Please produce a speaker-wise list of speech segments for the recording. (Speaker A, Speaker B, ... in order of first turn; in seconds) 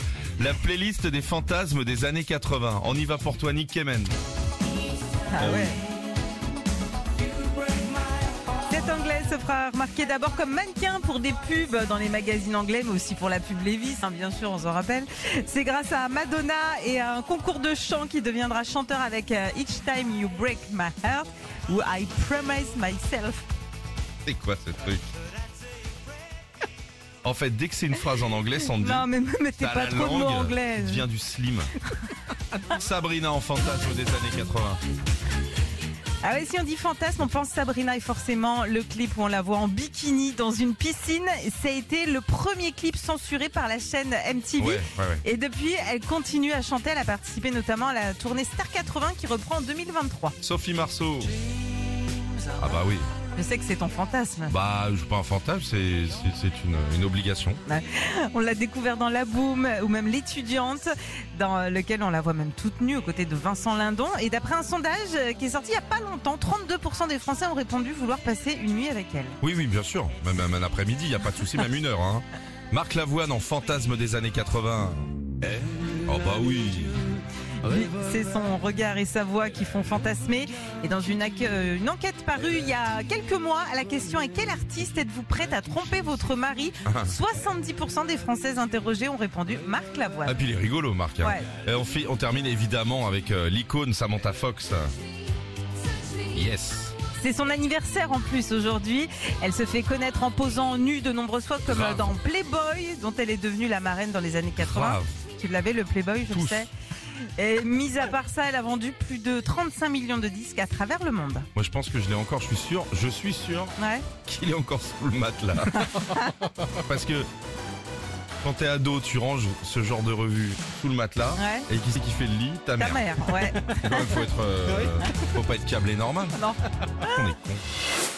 Speaker A: 0.4-4.1, 5.4-5.8, 24.2-25.1, 27.2-29.1, 29.6-31.7, 32.5-34.8, 44.6-45.2, 50.4-51.4, 52.6-53.0, 54.5-57.6, 69.4-75.1, 76.0-77.1, 86.8-87.1, 90.2-94.9, 96.3-97.0, 101.7-102.2, 104.6-105.1, 106.3-106.7, 111.5-115.9, 116.7-117.3, 118.4-126.4, 127.0-127.6
Speaker B: 5.3-5.8, 8.7-23.4, 28.7-31.0, 36.2-50.3, 53.3-54.5, 57.6-69.4, 77.6-90.4, 91.2-91.5, 97.2-106.7, 107.4-111.5, 113.8-114.1, 115.7-116.3, 121.3-121.7, 122.8-124.2, 126.3-127.3